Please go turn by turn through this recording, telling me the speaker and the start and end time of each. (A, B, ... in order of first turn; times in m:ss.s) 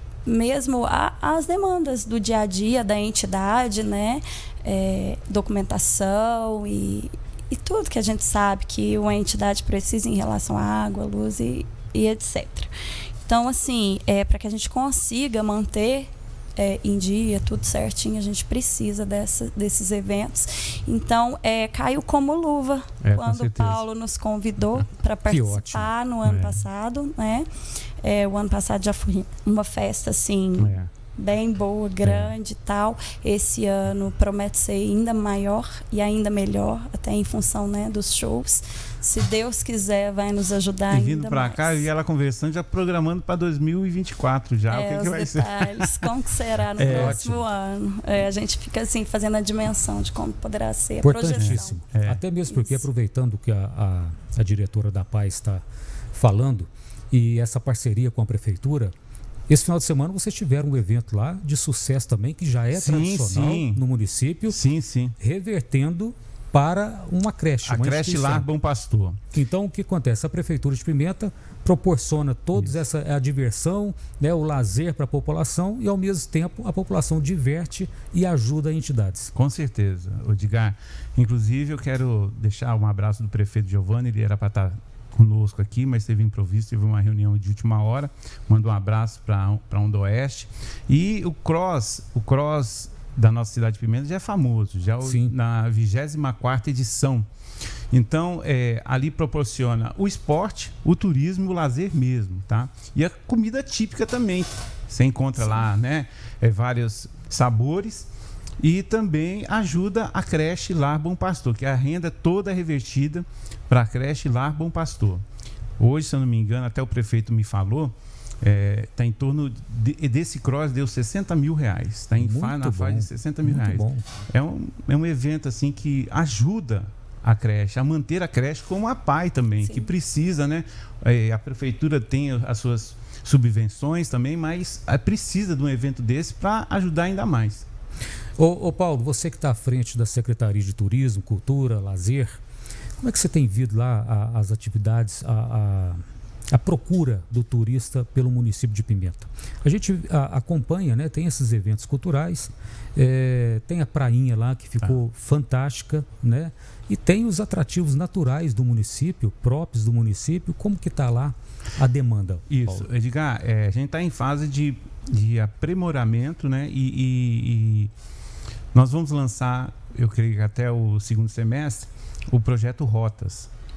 0:00.2-0:12.7 A
0:13.2-0:27.4 A
0:23.0-0:23.8 B
0:25.3-0:25.9 C
0:26.2-0:26.6 B
0:28.0-0:41.9 A
0:30.6-0:30.9 B
0:32.0-0:32.3 B
0:40.9-0:46.0 B
0:44.7-0:51.8 A
0:46.8-0:47.2 B
0:46.8-0:47.4 C
0:51.0-0:55.6 C
0:51.4-0:52.2 B
0:52.5-0:52.8 A
0:56.1-0:58.9 C
0:59.5-1:04.6 C
1:02.7-1:03.8 B
1:04.5-1:05.1 B
1:05.2-1:08.5 C
1:07.6-1:09.2 B
1:09.3-1:19.3 C
1:19.3-1:37.3 B
1:35.0-1:35.3 C
1:37.9-1:55.2 B
1:55.8-2:17.6 B
2:02.2-2:04.0 C
2:18.4-2:22.4 C
2:23.0-2:42.9 C
2:42.5-2:47.9 B
2:48.7-2:53.5 B